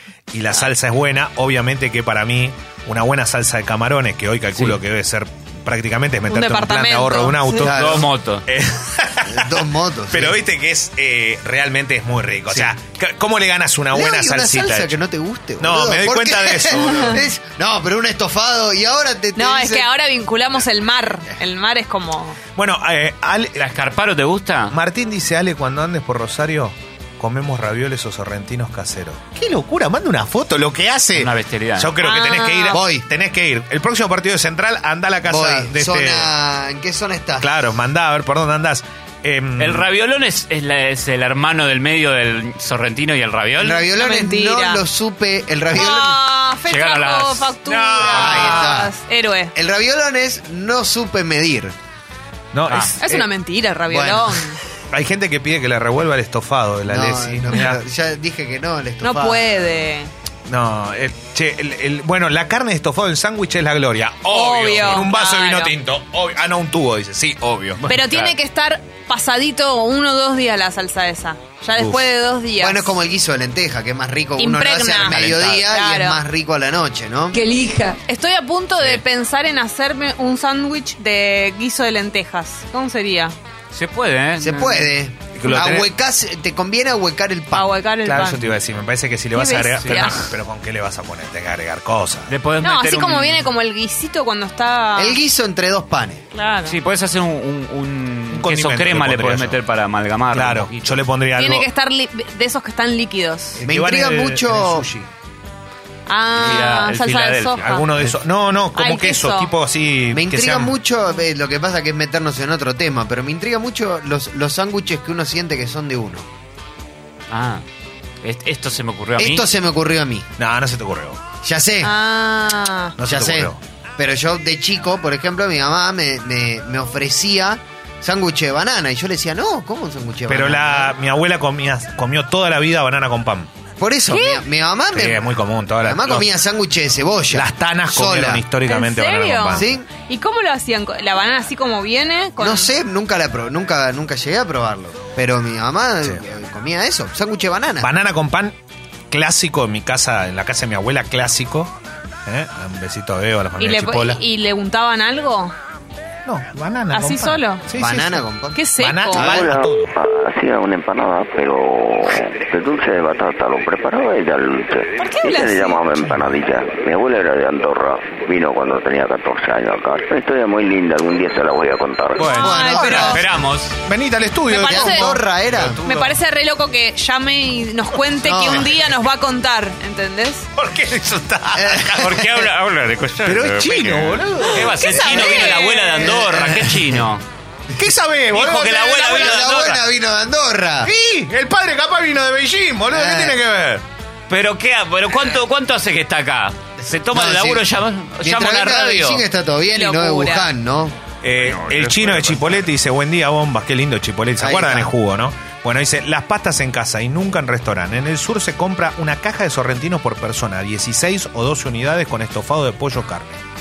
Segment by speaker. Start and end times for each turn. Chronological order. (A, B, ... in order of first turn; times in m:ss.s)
0:00.3-0:15.0 A
0:06.3-0:07.6 B
0:07.6-0:08.1 C
0:07.6-0:08.4 D
0:09.3-0:10.4 C
0:13.9-0:19.9 C
0:15.6-0:17.2 A
0:19.4-0:22.4 B
0:22.6-0:23.6 A
0:23.6-0:24.8 D
0:24.7-0:36.3 A
0:31.1-0:32.0 D
0:32.0-0:32.8 B
0:32.7-0:33.1 C
0:35.2-0:37.5 C
0:37.4-0:39.9 A
0:39.6-0:43.9 D
0:43.6-0:46.2 C
0:43.9-0:44.8 B
0:45.7-0:49.5 B
0:46.7-0:47.6 D
0:47.6-0:48.8 A
0:48.0-0:48.9 C
0:49.6-0:51.8 C
0:52.5-0:53.3 A
0:52.7-0:52.9 D
0:53.0-0:54.6 B
0:53.9-0:54.4 C
0:54.9-0:57.8 A
0:56.9-0:59.6 C
0:59.0-1:00.1 B
1:00.5-1:08.4 A
1:04.3-1:05.7 B
1:07.9-1:12.9 B
1:11.8-1:12.1 A
1:12.6-1:17.4 C
1:14.4-1:16.2 B
1:15.1-1:15.5 D
1:17.3-1:23.4 B
1:23.7-1:24.9 D
1:24.4-1:27.8 C
1:25.4-1:25.9 A
1:27.5-1:28.6 B
1:28.0-1:32.3 A
1:29.3-1:30.3 B
1:29.8-1:30.1 D
1:32.3-1:33.5 D
1:32.6-1:35.2 B
1:35.0-1:36.2 C
1:36.3-1:36.8 B
1:36.7-1:41.0 D
1:38.3-1:39.6 A
1:40.3-1:41.7 A
1:41.4-1:43.6 B
1:43.6-1:45.1 A
1:43.6-1:44.9 C
1:46.1-1:47.9 B
1:46.4-1:48.2 D
1:47.6-1:50.8 A
1:48.8-1:49.5 B
1:50.1-1:56.3 C
1:57.3-1:57.6 D
1:58.2-1:59.5 D
1:59.2-2:00.3 C
2:00.4-2:01.2 A
2:01.4-2:02.0 C
2:01.8-2:03.0 B
2:03.0-2:03.6 A
2:03.0-2:10.9 C
2:10.3-2:13.5 A
2:13.8-2:18.4 C
2:14.1-2:14.4 B
2:14.9-2:16.3 A
2:17.3-2:19.7 A
2:18.7-2:22.7 B
2:19.5-2:19.9 C
2:22.4-2:27.9 C
2:27.8-2:28.6 A
2:29.1-2:31.7 A
2:32.3-2:34.2 A
2:33.6-2:35.5 B
2:36.2-2:38.3 A
2:36.9-2:37.6 B
2:37.7-2:38.6 C
2:38.6-2:39.2 B
2:38.8-2:39.9 A
2:39.2-2:52.3 E
2:45.0-2:46.0 B
2:52.2-2:53.2 B
2:52.2-2:53.7 D
2:52.4-2:53.2 C
2:52.4-2:55.2 A
2:54.5-2:55.2 B
2:54.5-2:55.8 C
2:55.6-2:56.1 D
2:55.8-3:00.5 B
2:58.2-2:58.8 C
3:00.6-3:02.4 A
3:01.5-3:02.2 C
3:01.8-3:07.2 D
3:03.2-3:05.5 A
3:04.6-3:06.2 B
3:04.9-3:07.1 C
3:07.8-3:09.5 A
3:08.3-3:09.8 D
3:08.8-3:10.9 C
3:10.8-3:13.8 A
3:12.9-3:13.4 C
3:14.3-3:19.2 D
3:17.1-3:17.6 C
3:18.2-3:21.0 C
3:19.7-3:20.5 B
3:21.2-3:33.4 A
3:21.4-3:22.7 D
3:24.4-3:24.9 C